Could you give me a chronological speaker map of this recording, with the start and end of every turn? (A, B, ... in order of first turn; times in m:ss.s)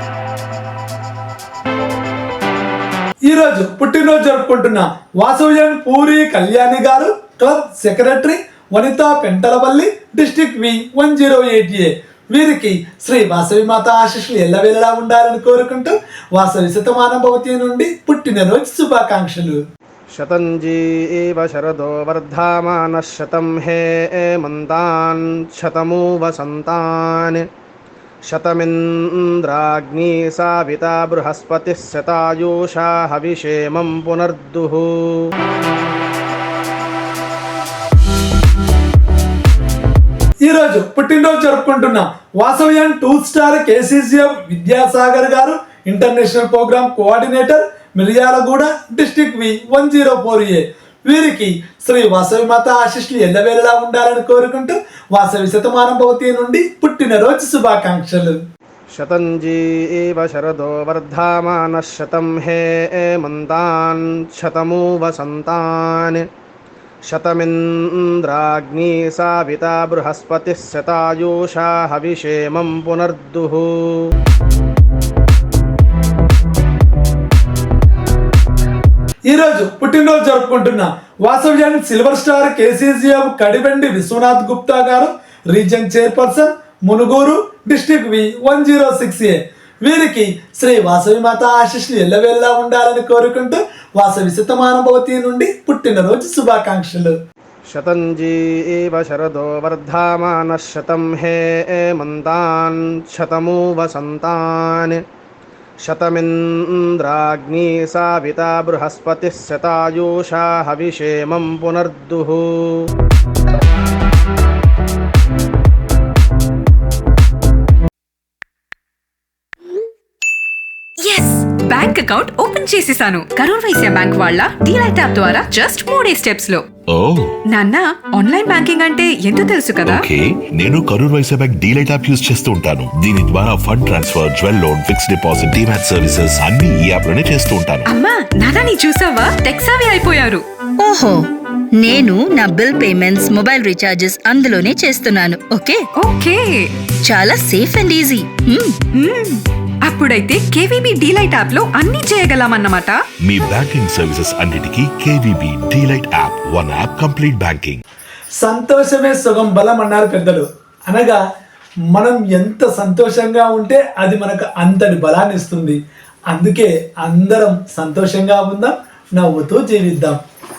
0:03.3-0:19.6 A
0:20.2-0:27.4 B
0:28.3-0:35.2 B
0:40.4-0:58.4 A
0:59.0-1:06.2 B
1:07.1-1:14.0 B
1:19.3-1:37.2 A
1:37.7-1:45.0 B
1:45.8-1:52.8 B
2:01.1-2:06.6 C
2:06.9-2:07.3 D
2:07.5-2:10.1 C
2:09.9-2:17.9 D
2:17.9-2:20.4 C
2:20.8-2:21.2 E
2:21.8-2:25.8 E
2:26.0-2:26.7 C
2:27.1-2:28.8 E
2:29.0-2:33.0 C
2:33.2-2:37.8 D
2:38.4-2:41.2 A
2:41.9-2:45.8 A
2:46.3-2:50.2 A